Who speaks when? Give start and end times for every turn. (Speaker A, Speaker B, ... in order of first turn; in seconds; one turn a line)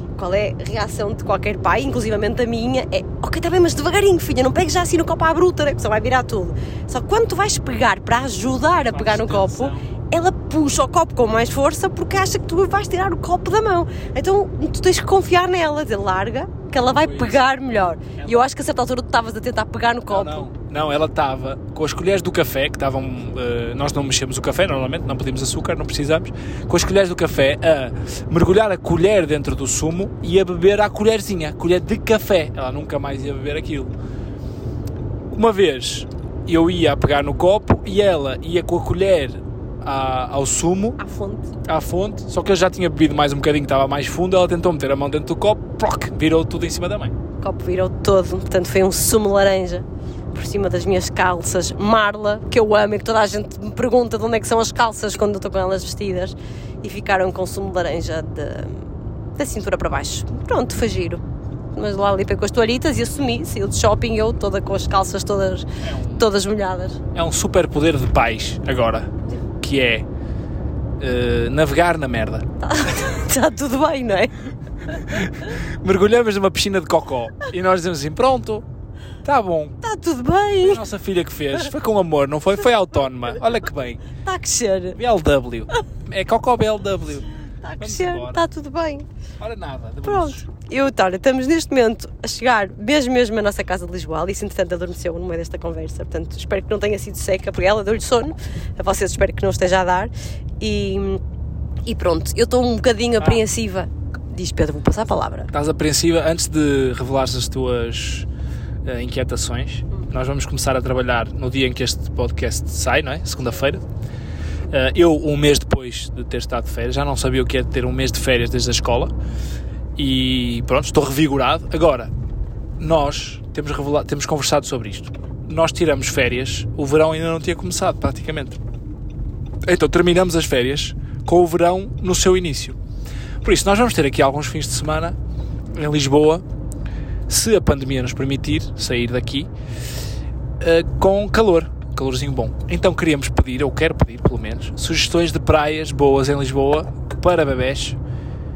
Speaker A: 0.2-20.5
Speaker B: 8.9-9.9
Speaker B: 16.9-17.4
Speaker B: 20.1-33.9
Speaker B: 35.3-41.0
Speaker A: 41.0-41.5
Speaker B: 41.6-47.1
Speaker A: 47.4-61.2
Speaker A: 61.7-67.0
Speaker B: 65.8-66.2
Speaker B: 67.1-70.1
Speaker B: 71.0-72.5
Speaker A: 72.6-74.3
Speaker B: 75.0-78.7
Speaker B: 79.2-79.8
Speaker A: 79.8-80.8
Speaker B: 80.6-84.1
Speaker A: 84.2-85.0
Speaker B: 85.0-87.3
Speaker A: 87.6-89.1
Speaker B: 87.8-88.4
Speaker B: 89.4-90.5
Speaker A: 90.0-101.2
Speaker A: 101.9-105.5
Speaker B: 105.5-108.3
Speaker B: 108.8-113.8
Speaker B: 114.7-119.1
Speaker B: 120.0-122.1
Speaker B: 122.8-128.6
Speaker B: 129.7-132.8
Speaker B: 133.4-135.2
Speaker B: 135.7-136.4
Speaker B: 137.3-139.5
Speaker B: 140.6-148.0